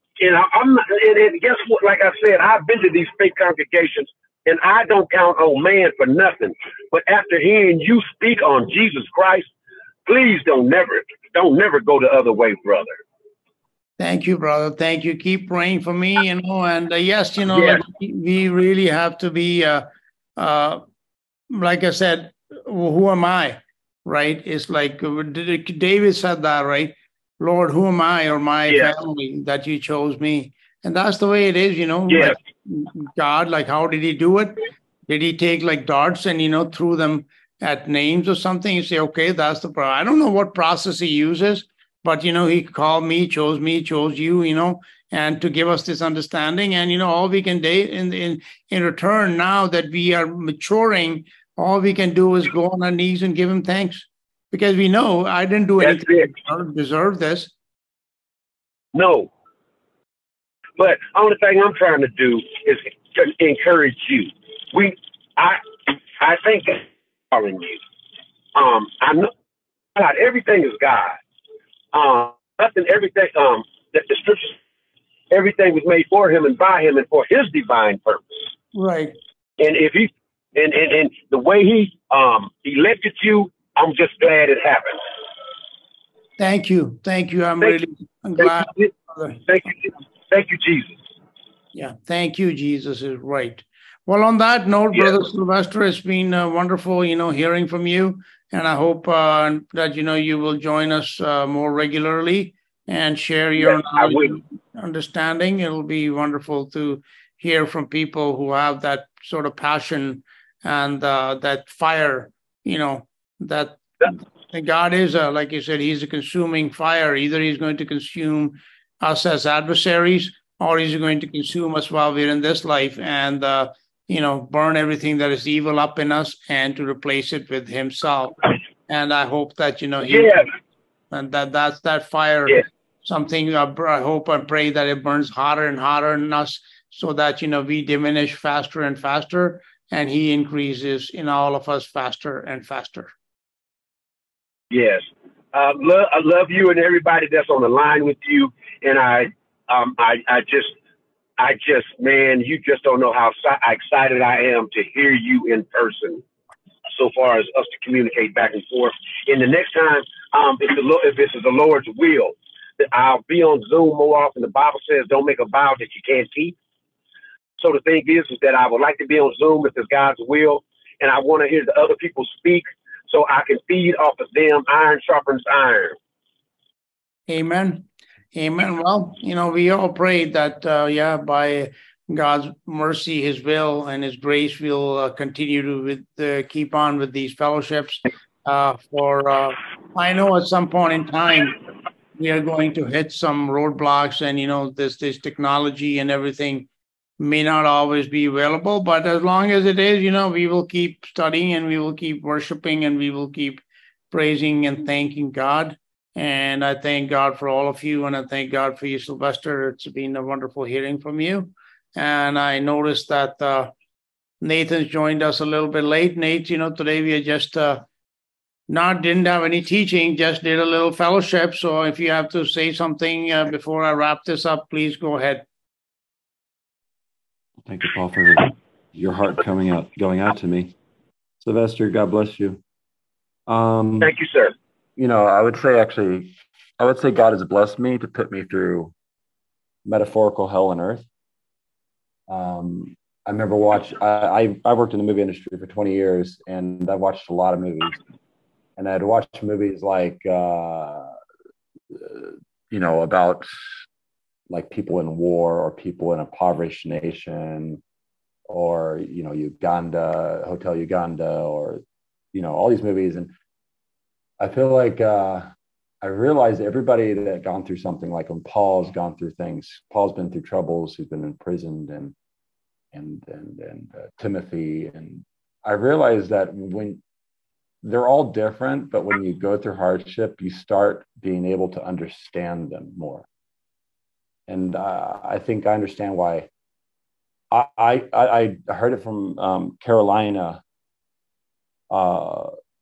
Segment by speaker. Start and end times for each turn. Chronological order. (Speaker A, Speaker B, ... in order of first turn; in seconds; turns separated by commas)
Speaker A: 0.2-9.5, Speaker A: 10.1-13.0, Speaker B: 14.0-19.9, Speaker A: 17.5-17.8, Speaker B: 20.4-20.8, Speaker B: 21.5-57.5, Speaker A: 28.7-28.9, Speaker A: 32.1-32.4, Speaker A: 55.8-56.3, Speaker A: 58.9-59.3, Speaker A: 60.8-67.8, Speaker A: 68.5-69.3, Speaker A: 70.0-71.2, Speaker A: 71.9-74.6, Speaker A: 75.3-78.5, Speaker B: 78.7-79.2, Speaker A: 79.6-85.0, Speaker B: 86.4-89.4, Speaker A: 88.4-88.9, Speaker A: 89.5-90.9, Speaker B: 91.7-130.3, Speaker A: 103.6-104.4, Speaker A: 130.0-130.5, Speaker B: 131.1-143.1, Speaker A: 144.7-150.7, Speaker A: 151.4-156.2, Speaker A: 156.9-166.5, Speaker A: 167.6-176.0, Speaker B: 177.3-191.6, Speaker B: 192.2-196.7, Speaker B: 197.2-213.7, Speaker B: 214.4-217.8, Speaker B: 218.7-225.4, Speaker C: 227.6-230.8, Speaker C: 231.4-232.6, Speaker C: 233.5-234.1, Speaker A: 234.0-234.5, Speaker C: 234.9-238.9, Speaker C: 239.8-241.1, Speaker C: 242.3-248.0, Speaker C: 248.8-251.1, Speaker C: 251.9-253.5, Speaker C: 254.5-257.8, Speaker C: 258.5-261.8, Speaker C: 262.3-263.3, Speaker C: 264.4-265.5, Speaker C: 266.0-272.1, Speaker C: 272.9-277.0, Speaker C: 277.8-283.2, Speaker C: 284.5-286.5, Speaker C: 287.5-290.6, Speaker C: 291.9-292.5